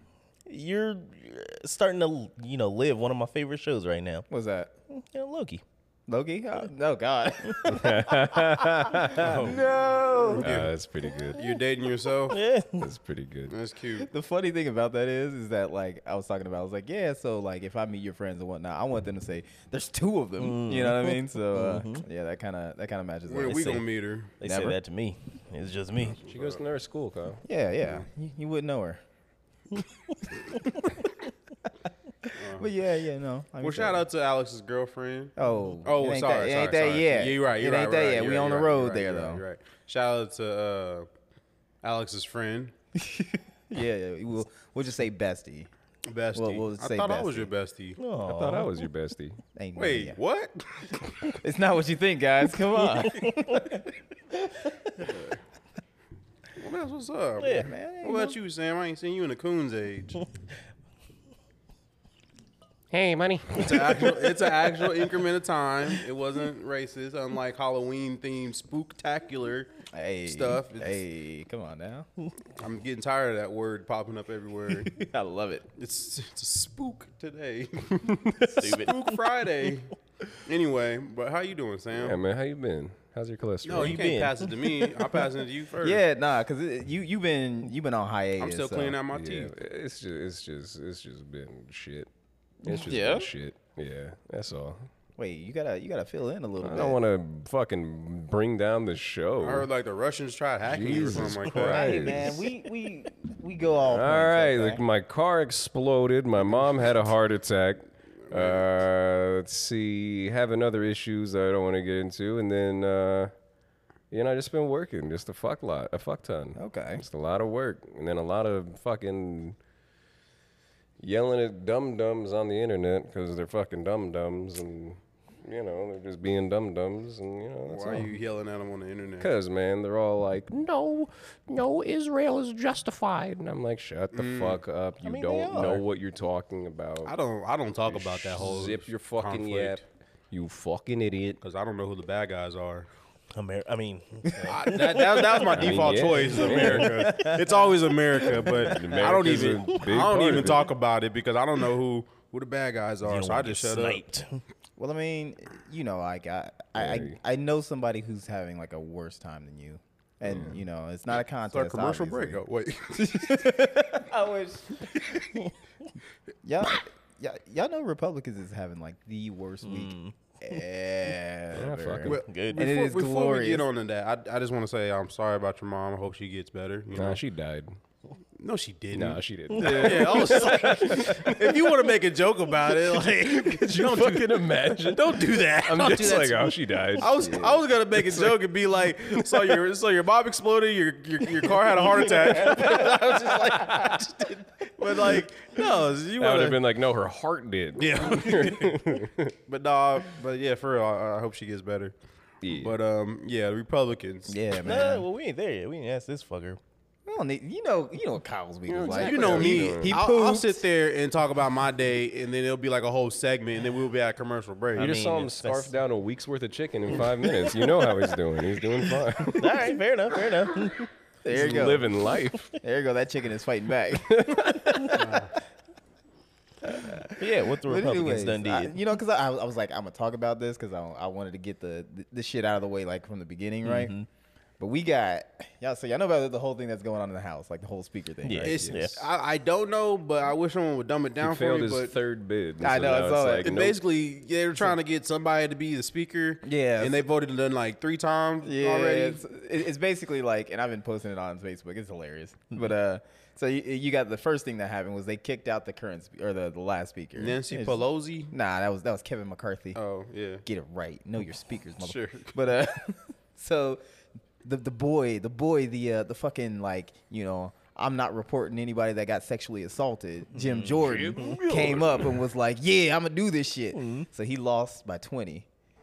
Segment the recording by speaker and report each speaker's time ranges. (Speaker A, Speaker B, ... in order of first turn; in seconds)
Speaker A: 0.5-4.3, 4.9-5.6, 12.3-12.9, 20.4-22.0, 23.5-23.8, 24.4-26.2, 29.8-30.1, 48.0-48.7, 53.0-53.8, 57.4-57.7, 78.6-79.0, 83.8-85.1, 143.3-145.5, 153.0-154.4, 169.6-170.1, 172.2-172.7, 179.6-179.9, 204.6-206.6, 214.8-215.8, 218.9-220.9, 227.2-228.8, 233.6-234.1, 238.2-239.0, 270.3-271.4, 273.7-274.1
Speaker B: 4.3-4.7, 6.1-10.6, 13.9-23.8, 24.4-24.8, 27.4-29.0, 30.5-31.0, 32.2-34.0, 35.4-39.4, 42.9-45.7, 46.3-47.5, 49.5-50.2, 51.4-53.9, 57.5-58.4, 69.9-72.1, 74.9-75.7, 85.8-89.0, 92.6-93.3, 95.2-97.0, 101.6-104.8, 116.5-117.0, 135.0-135.8, 144.2-144.5, 146.4-149.3, 154.8-162.4, 163.0-165.2, 166.4-173.7, 179.6-180.2, 187.2-187.6, 192.0-194.1, 204.3-205.1, 207.1-210.6, 221.2-222.0, 222.6-224.5, 226.6-233.9, 234.6-238.7, 242.6-243.5, 246.4-247.0, 248.4-259.8, 260.4-263.8, 264.4-275.5
Speaker C: 7.6-9.6, 10.3-11.4, 12.7-13.6, 26.2-27.4, 48.2-49.4, 62.9-65.0, 81.9-84.1, 89.1-92.1, 92.6-94.9, 96.6-99.7, 100.6-102.3, 103.8-113.3, 114.1-119.6, 121.0-128.1, 129.2-137.1, 137.9-141.4, 145.5-147.2, 148.4-150.7, 156.8-157.2, 160.2-160.5, 171.5-172.2, 176.9-177.8, 178.9-181.7, 183.0-188.5, 189.1-189.6, 191.4-192.9, 193.5-194.0, 196.2-199.3, 202.4-202.8, 208.7-210.0, 214.8-219.8, 221.3-222.6, 223.9-225.2, 241.2-243.8, 270.8-272.1
Speaker D: 9.2-10.7, 11.3-12.4, 13.5-14.1, 23.3-24.3, 26.0-26.6, 32.4-32.7, 33.6-41.1, 41.8-42.7, 46.0-48.0, 49.8-51.0, 55.0-55.4, 56.6-60.2, 63.5-69.7, 70.2-71.0, 72.6-75.0, 75.8-82.2, 83.6-86.0, 88.4-89.5, 99.4-102.2, 108.3-108.6, 127.7-129.3, 134.1-134.6, 137.0-139.8, 141.4-142.9, 144.5-154.0, 161.5-163.5, 172.0-177.2, 178.4-196.6, 197.8-201.9, 202.5-204.4, 208.8-215.0, 221.3-221.6, 224.9-225.3, 238.4-242.0, 243.4-249.2, 257.1-258.3, 259.8-260.4, 261.8-262.3, 271.7-272.1